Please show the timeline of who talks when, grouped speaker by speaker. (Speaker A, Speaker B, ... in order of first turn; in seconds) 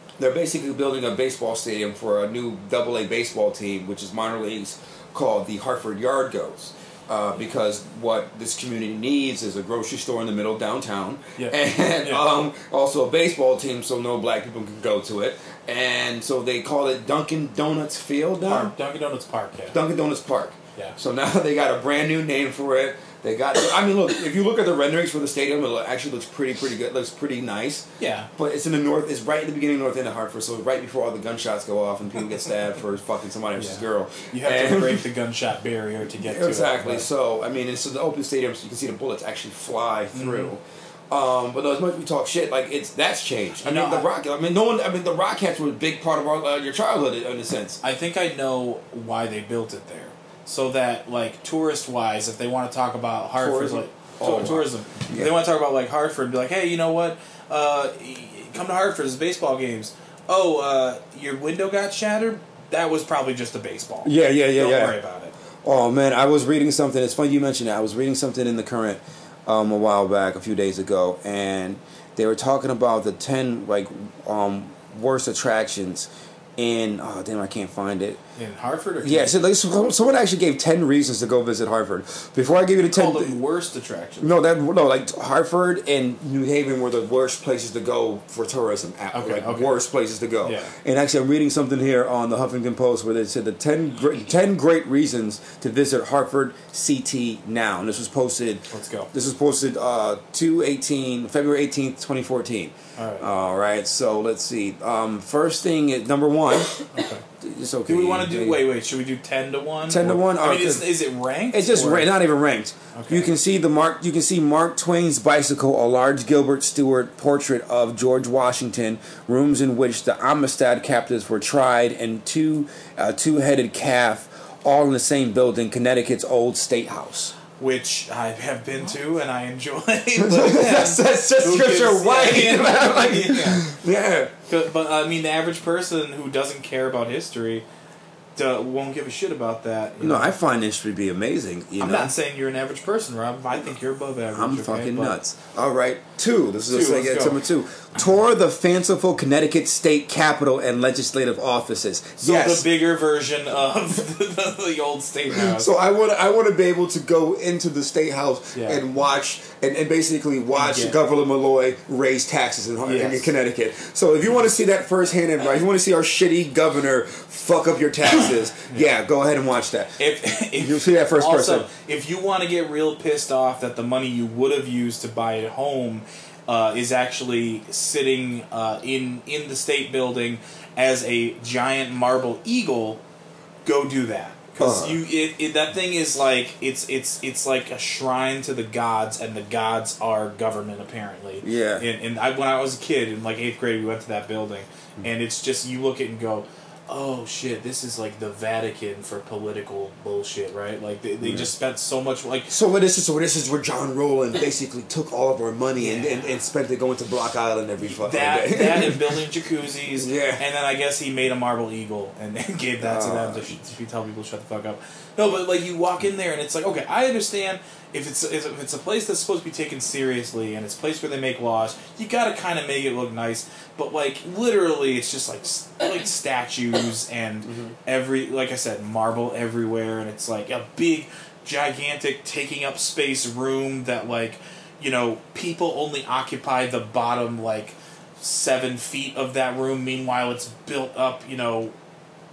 Speaker A: 0.2-18.7, 19.7-35.0, 36.2-47.8, 53.4-55.3, 64.0-65.0, 65.6-78.2, 79.0-83.3, 84.2-106.9, 107.4-108.6, 109.9-110.9, 111.5-127.3, 130.2-134.3, 140.0-142.1, 144.3-152.7, 155.3-170.0, 170.6-171.7, 184.6-185.0, 191.4-191.8, 201.2-201.5, 202.5-209.2, 209.9-210.4, 212.8-213.5, 227.4-227.7
Speaker B: 11.4-12.2, 18.4-19.8, 28.0-28.3, 33.5-37.1, 40.1-40.5, 43.6-44.1, 47.8-65.3, 78.3-79.4, 82.8-84.3, 89.1-89.7, 90.4-90.7, 98.7-99.1, 103.0-103.3, 106.9-107.2, 107.9-112.1, 112.9-113.3, 127.6-133.7, 134.5-137.6, 138.3-140.4, 141.8-145.2, 146.7-147.4, 152.2-155.7, 158.5-158.8, 160.6-160.9, 162.8-163.3, 168.2-169.0, 170.0-183.0, 183.6-202.5, 205.8-206.4, 207.8-241.7